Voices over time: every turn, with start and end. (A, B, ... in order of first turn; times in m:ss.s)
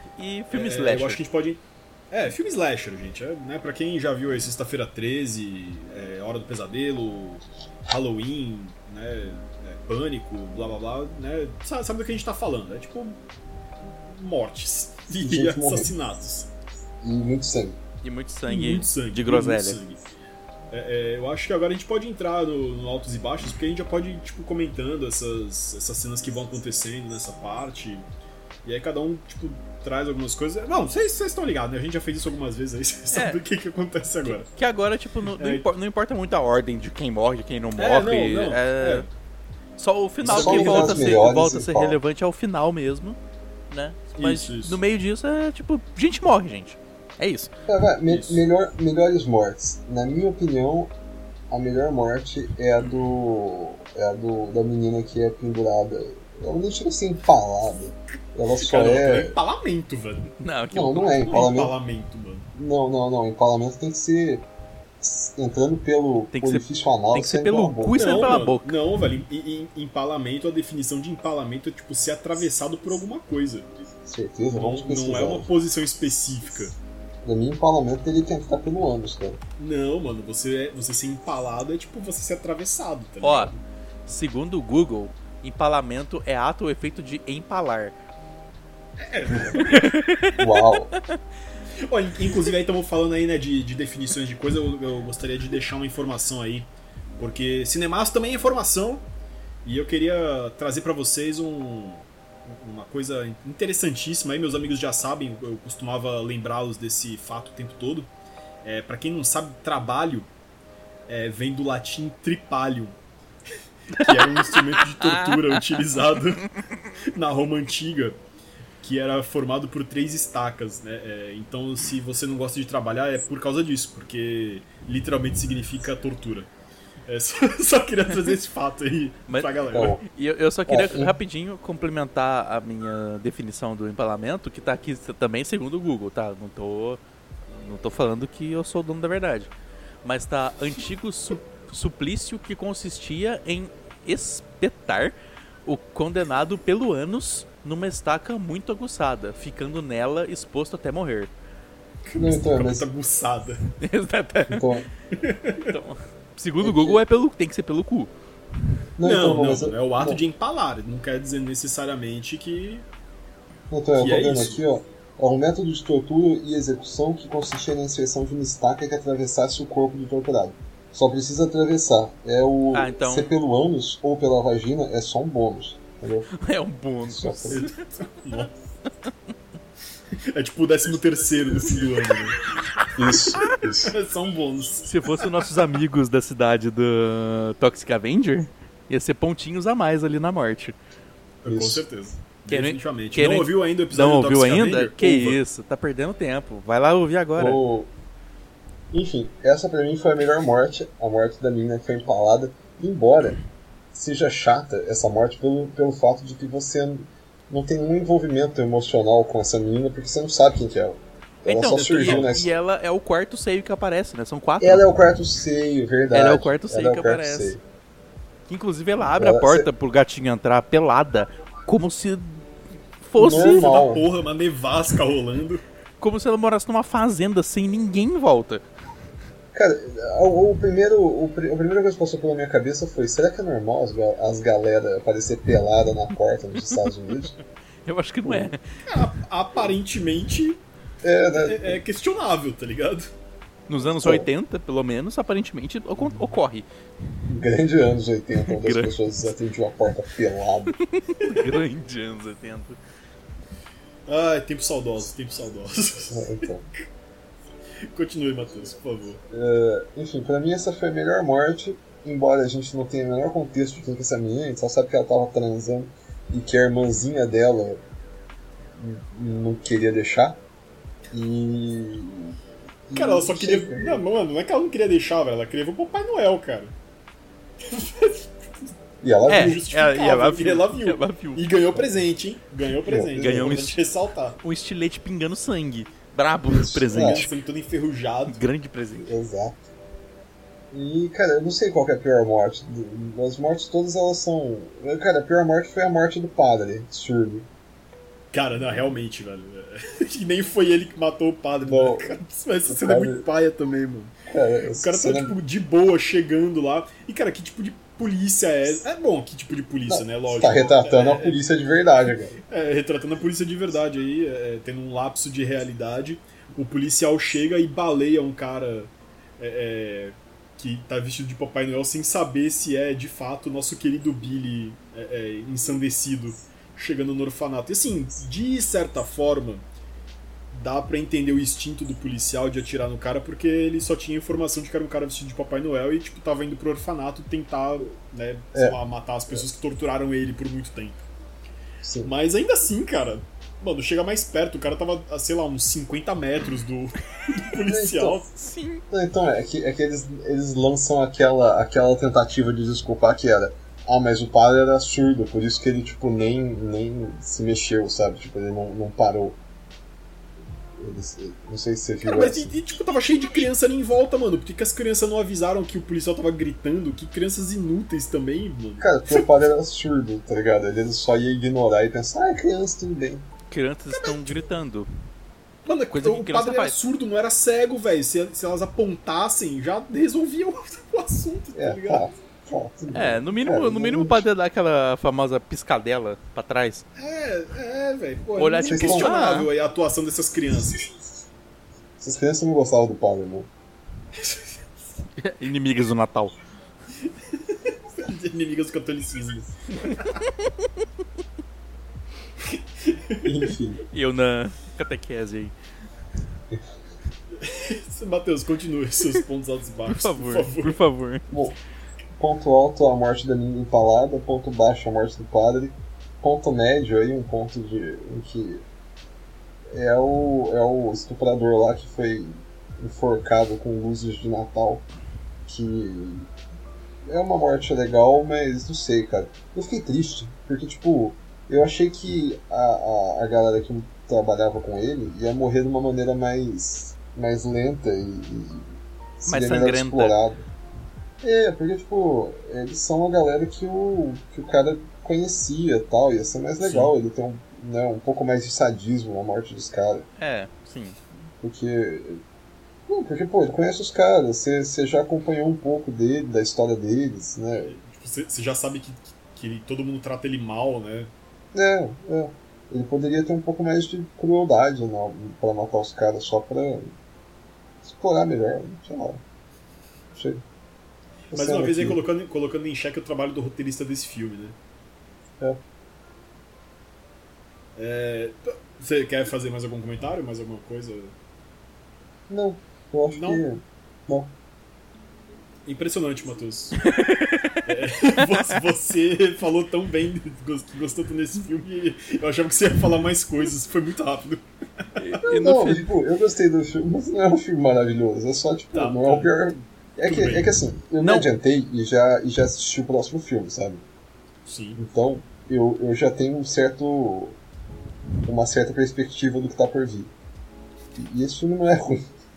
0:00.1-0:01.2 A
0:00.5-0:13.2 B
0:14.0-0:16.5 B
0:15.2-0:15.9 C
0:17.0-0:17.8 C
0:18.0-0:19.8 A
0:18.5-0:20.0 B
0:20.7-0:28.0 B
0:28.6-0:34.5 B
0:33.1-0:33.4 A
0:34.2-0:39.0 A
0:35.3-0:35.6 B
0:37.8-0:39.1 B
0:39.8-0:43.2 A
0:40.2-0:41.2 B
0:40.2-0:42.0 C
0:43.7-0:47.5 A
0:44.2-0:44.8 B
0:47.7-0:50.9 C
0:48.1-0:48.4 B
0:51.5-0:59.4 C
0:58.5-1:00.3 B
1:00.4-1:01.4 A
1:00.7-1:01.7 C
1:01.3-1:02.5 B
1:02.5-1:04.5 C
1:05.0-1:08.4 C
1:06.3-1:08.8 A
1:08.0-1:13.8 B
1:14.0-1:15.5 C
1:14.5-1:16.8 B
1:17.2-1:19.4 C
1:19.6-1:23.6 B
1:23.2-1:23.5 A
1:24.1-1:27.9 A
1:29.0-1:29.9 B
1:29.3-1:29.6 C
1:29.7-1:30.4 A
1:30.4-1:30.9 C
1:31.8-1:39.0 B
1:39.6-1:48.1 B
1:48.6-1:50.3 B
1:51.1-1:53.0 B
1:53.9-1:56.4 B
1:53.9-1:55.6 A
1:57.1-1:58.2 B
1:58.8-2:06.5 B
2:07.1-2:10.0 B
2:09.3-2:19.5 A
2:09.7-2:10.0 C
2:10.7-2:11.2 C
2:20.0-2:31.3 A
2:32.0-2:33.6 B
2:32.1-2:32.9 C
2:33.8-2:34.7 A
2:34.5-2:34.9 C
2:35.2-2:35.7 B
2:35.6-2:38.1 A
2:36.6-2:37.0 C
2:39.0-2:40.2 C
2:39.0-2:42.8 B
2:43.7-2:56.3 C
2:44.0-2:44.6 B
2:52.7-2:53.3 A
2:56.4-2:57.7 A
2:57.0-2:57.6 C
2:57.5-2:58.5 B
3:00.3-3:02.4 B
3:03.0-3:03.9 C
3:03.9-3:05.6 B
3:04.9-3:10.8 A
3:11.4-3:15.4 B
3:11.4-3:11.8 C
3:12.5-3:17.6 A
3:17.4-3:17.9 C
3:18.9-3:23.4 C
3:23.9-3:32.5 C
3:31.4-3:34.8 A
3:31.7-3:32.3 B
3:34.6-3:37.6 C
3:36.1-3:37.6 A
3:38.5-3:42.4 A
3:39.0-3:39.7 C
3:43.0-3:43.8 A
3:43.2-3:44.0 C
3:43.2-3:45.6 B
3:46.0-3:48.6 A
3:49.5-3:57.4 C
3:57.8-3:58.6 A
3:58.2-3:58.5 C
3:58.9-4:00.6 B
4:01.0-4:01.8 C
4:01.4-4:03.1 B
4:03.7-4:06.6 A
4:03.8-4:04.3 C
4:07.3-4:10.8 C
4:08.4-4:08.9 A
4:10.9-4:12.8 A
4:14.1-4:16.3 B
4:16.1-4:16.6 C
4:17.9-4:19.2 B
4:19.3-4:27.8 C
4:28.7-4:30.4 C
4:31.1-4:32.4 C
4:32.9-4:34.0 C
4:32.9-4:36.8 B
4:37.6-4:38.2 B
4:39.0-4:39.6 C
4:39.3-4:41.5 A
4:39.3-4:44.4 B
4:42.9-4:43.6 C
4:43.2-4:43.8 A
4:44.4-4:47.3 A
4:46.5-4:47.3 C
4:46.9-4:48.4 B
4:48.3-4:49.1 A
4:49.0-4:49.6 C
4:50.7-4:57.5 C
4:58.3-5:04.1 B
5:01.6-5:03.2 C
5:04.3-5:05.4 C
5:04.8-5:11.4 B
5:09.9-5:12.4 C
5:12.5-5:29.6 B
5:30.5-5:41.0 B
5:41.8-5:42.1 C
5:42.0-5:48.3 B
5:47.6-5:48.2 C
5:48.4-5:48.8 A
5:48.9-5:59.4 C
6:00.8-6:02.5 C
6:02.0-6:09.3 B
6:08.8-6:13.2 C
6:13.5-6:14.9 A
6:15.6-6:22.0 B
6:15.9-6:16.7 A
6:21.5-6:24.3 C
6:22.9-6:26.8 A
6:27.0-6:30.8 B
6:28.4-6:29.5 A
6:28.6-6:29.1 C
6:32.0-6:33.5 C
6:35.2-6:36.3 A
6:37.5-6:40.0 B
6:40.0-6:40.5 A
6:42.5-6:43.4 B
6:43.2-6:43.8 C
6:43.9-6:45.5 A
6:47.4-6:50.8 B
6:49.9-6:51.2 A
6:51.3-6:51.6 C
6:52.1-6:58.6 C
6:59.7-7:04.8 C
7:05.4-7:06.3 C
7:07.0-7:20.4 C
7:19.2-7:20.2 A
7:21.2-7:30.1 C
7:26.6-7:26.9 B
7:30.2-7:31.0 A
7:31.4-7:32.2 C
7:32.9-7:37.8 C
7:37.6-7:41.1 B
7:41.5-7:47.0 C
7:47.8-7:49.2 C
7:50.1-7:50.4 C
7:51.3-7:54.6 B
7:51.3-7:52.0 C
7:57.8-8:01.1 B
8:02.3-8:04.3 C
8:03.1-8:03.4 B
8:05.6-8:06.8 B
8:06.8-8:07.6 A
8:07.6-8:14.4 B
8:15.0-8:15.9 A
8:15.2-8:23.8 C
8:18.7-8:20.5 B
8:21.0-8:21.3 A
8:24.4-8:24.8 B
8:24.8-8:27.4 C
8:28.2-8:30.1 C
8:30.9-8:32.1 C